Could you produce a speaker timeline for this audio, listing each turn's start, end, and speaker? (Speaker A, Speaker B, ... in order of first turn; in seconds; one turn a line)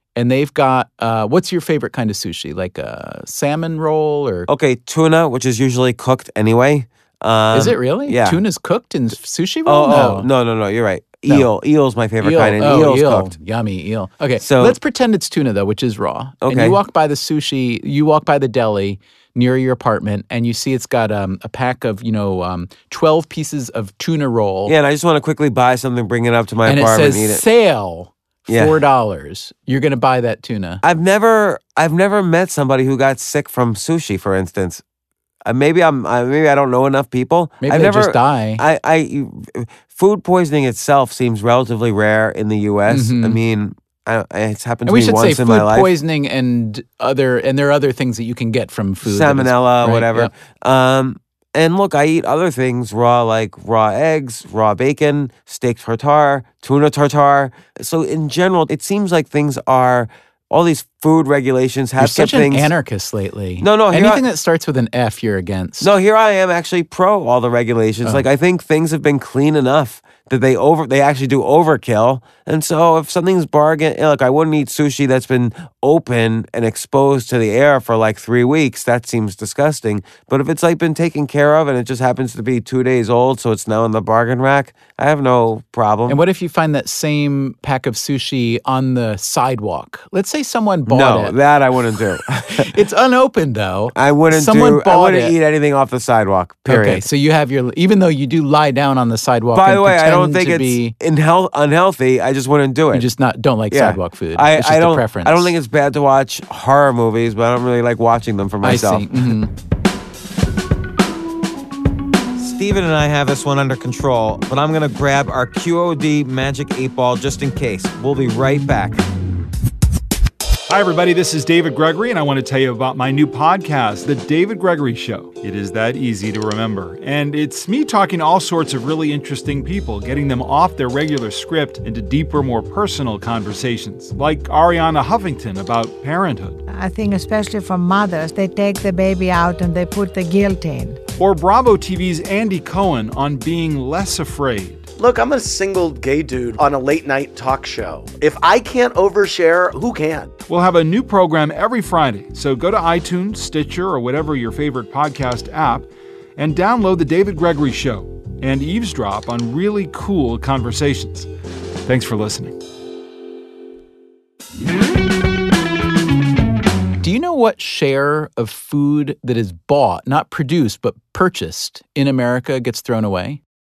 Speaker A: 0.1-4.5
Speaker B: 4.5-8.4
Speaker A: 7.5-10.3
Speaker B: 9.7-13.3
Speaker A: 12.2-24.7
Speaker B: 14.4-14.8
Speaker B: 16.4-16.8
Speaker B: 24.7-27.4
Speaker A: 26.6-30.8
Speaker B: 28.5-28.8
Speaker B: 30.8-34.8
Speaker B: 35.4-45.9
Speaker A: 37.6-38.6
Speaker A: 42.9-43.4
Speaker A: 44.9-50.3
Speaker B: 49.0-62.7
Speaker A: 62.0-65.9
Speaker B: 63.6-64.2
Speaker B: 65.8-86.2
Speaker A: 86.1-91.4
Speaker B: 90.9-92.7
Speaker A: 92.5-95.3
Speaker B: 93.9-97.0
Speaker A: 96.7-100.9
Speaker B: 99.5-103.1
Speaker A: 102.9-105.5
Speaker B: 103.7-109.1
Speaker A: 108.6-109.5
Speaker B: 112.4-119.0
Speaker C: 120.7-136.6
Speaker D: 136.7-141.0
Speaker C: 141.2-144.9
Speaker E: 145.0-150.3
Speaker C: 150.5-161.3
Speaker C: 161.8-162.6
Speaker A: 167.0-173.4